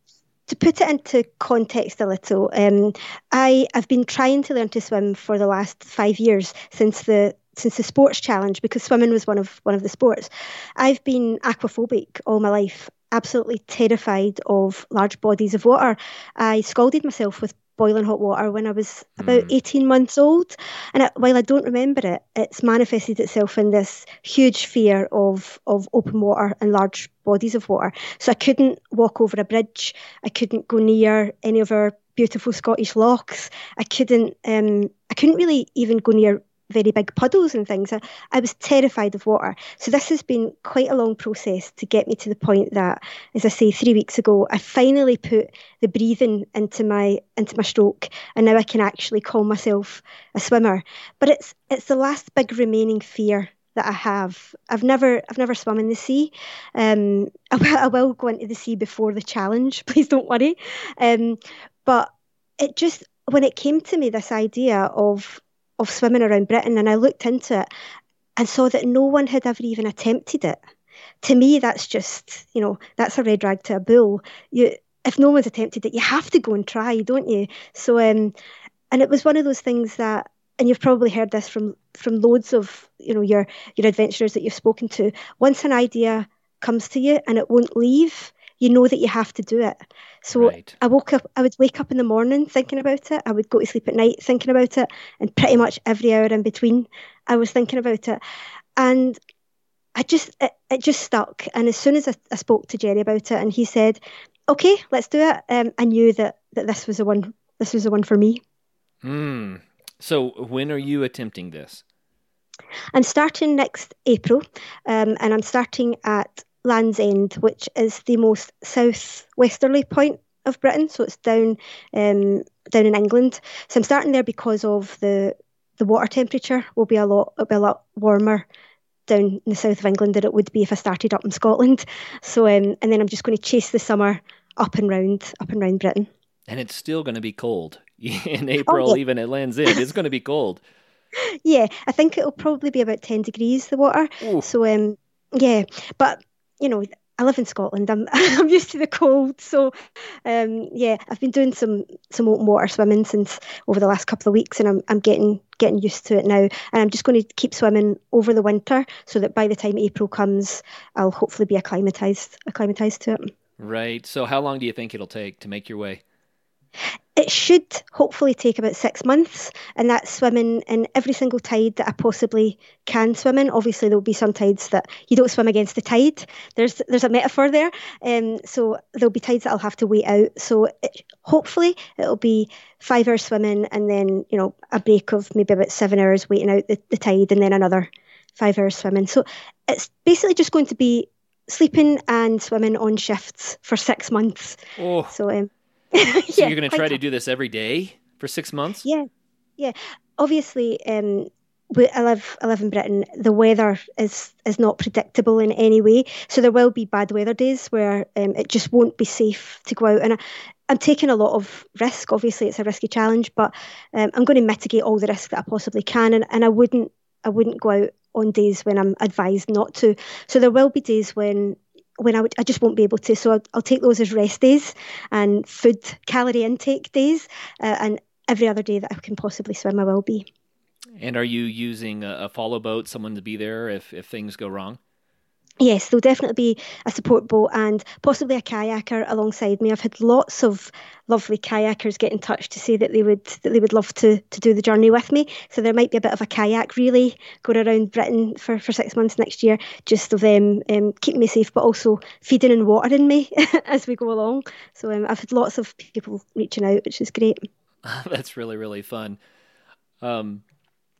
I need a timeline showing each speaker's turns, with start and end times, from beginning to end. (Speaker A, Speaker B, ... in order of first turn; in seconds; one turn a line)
Speaker A: 0.5-67.7
Speaker B: 19.2-19.5
Speaker A: 68.4-70.6
Speaker A: 71.2-78.3
Speaker A: 78.9-98.2
Speaker B: 90.3-90.8
Speaker A: 98.8-99.2
Speaker A: 100.0-108.4
Speaker B: 109.0-111.8
Speaker A: 112.9-128.5
Speaker A: 129.1-136.1
Speaker B: 136.5-140.6
Speaker A: 138.7-139.0
Speaker A: 141.4-149.7
Speaker B: 144.2-144.5
Speaker A: 150.2-163.3
Speaker B: 163.6-166.0
Speaker A: 167.2-194.6
Speaker B: 194.8-195.1
Speaker A: 195.1-197.0
Speaker B: 196.3-198.9
Speaker A: 199.6-230.3
Speaker B: 231.0-234.8
Speaker A: 235.6-257.5
Speaker B: 257.9-259.2
Speaker B: 260.0-260.4